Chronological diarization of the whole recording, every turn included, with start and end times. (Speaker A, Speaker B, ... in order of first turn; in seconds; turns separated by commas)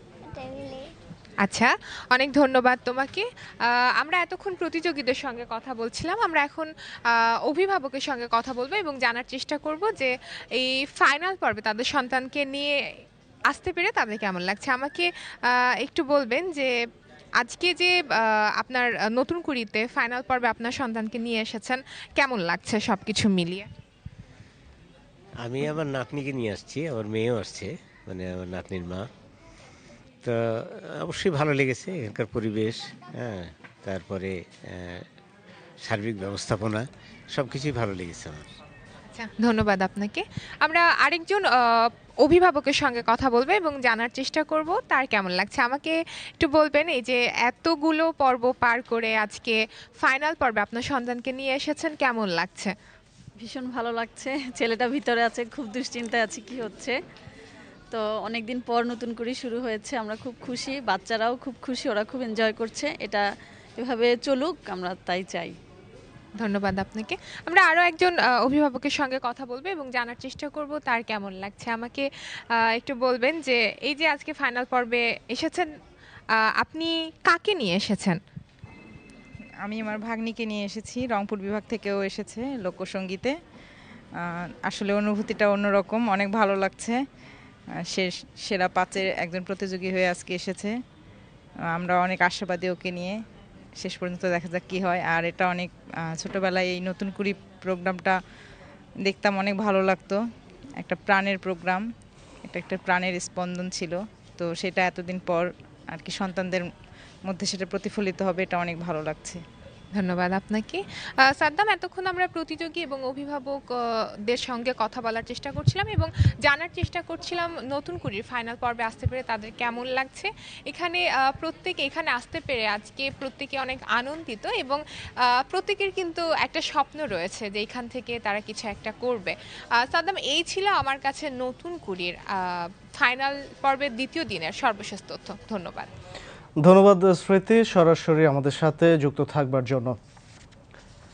Speaker A: 1.4-12.7, Speaker A: 13.5-16.7, Speaker A: 17.4-23.7, Speaker B: 25.4-29.1, Speaker B: 30.2-35.0, Speaker B: 35.8-38.5, Speaker A: 39.1-52.7, Speaker C: 53.4-56.9, Speaker C: 57.9-63.2, Speaker C: 63.8-65.5, Speaker A: 66.4-75.7, Speaker A: 76.4-78.2, Speaker D: 79.6-83.3, Speaker D: 84.2-87.0, Speaker D: 87.9-90.8, Speaker D: 91.7-93.2, Speaker D: 93.8-98.2, Speaker D: 99.0-100.2, Speaker D: 100.8-101.8, Speaker D: 102.4-106.7, Speaker D: 107.3-109.4, Speaker A: 110.0-113.7, Speaker A: 114.3-124.8, Speaker A: 125.4-135.9, Speaker E: 136.6-139.9